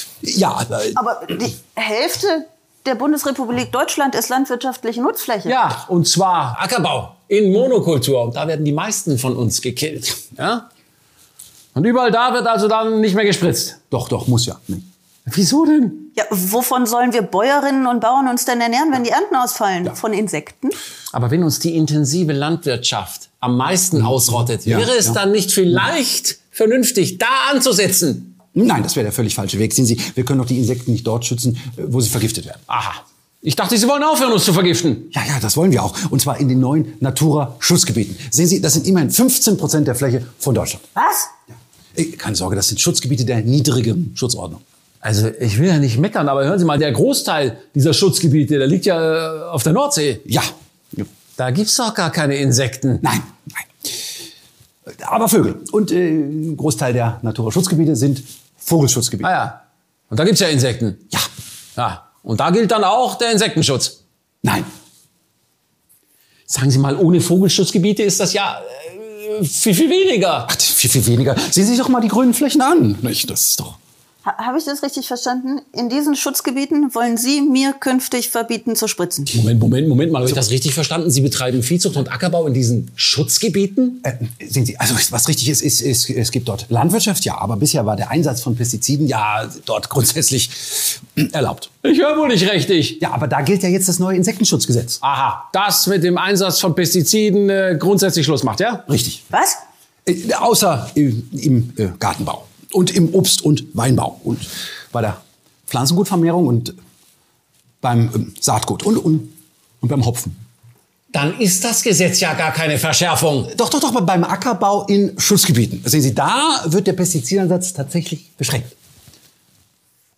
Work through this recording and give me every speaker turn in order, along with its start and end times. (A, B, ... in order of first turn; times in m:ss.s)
0:00.2-0:01.0 A
0:01.0-0:05.5 B
0:05.4-0:10.6 C
0:11.7-0:13.8 C
0:13.9-0:14.8 A
0:15.3-0:16.1 C
0:16.2-0:20.8 B
0:21.1-0:28.4 C
0:24.0-0:25.2 A
0:28.5-0:32.6 A
0:32.7-0:35.1 C
0:35.1-0:40.8 A
0:41.0-0:41.3 B
0:41.9-0:44.6 A
0:45.0-0:50.2 C
0:50.2-0:51.0 A
0:51.4-0:53.0 C
0:53.0-0:53.9 A
0:54.9-0:59.3 A
0:59.2-0:59.6 C
1:00.1-1:01.0 C
1:01.8-1:04.0 C
1:06.5-1:10.5 C
1:10.5-1:13.8 A
1:14.2-1:19.3 B
1:19.3-1:24.0 C
1:24.0-1:31.7 A
1:31.8-1:33.0 C
1:33.0-1:35.0 A
1:35.0-1:38.8 C
1:38.9-1:39.2 A
1:39.3-1:39.6 B
1:40.0-1:46.8 A
1:47.8-1:50.4 A
1:51.1-1:53.5 C
1:53.5-1:58.7 A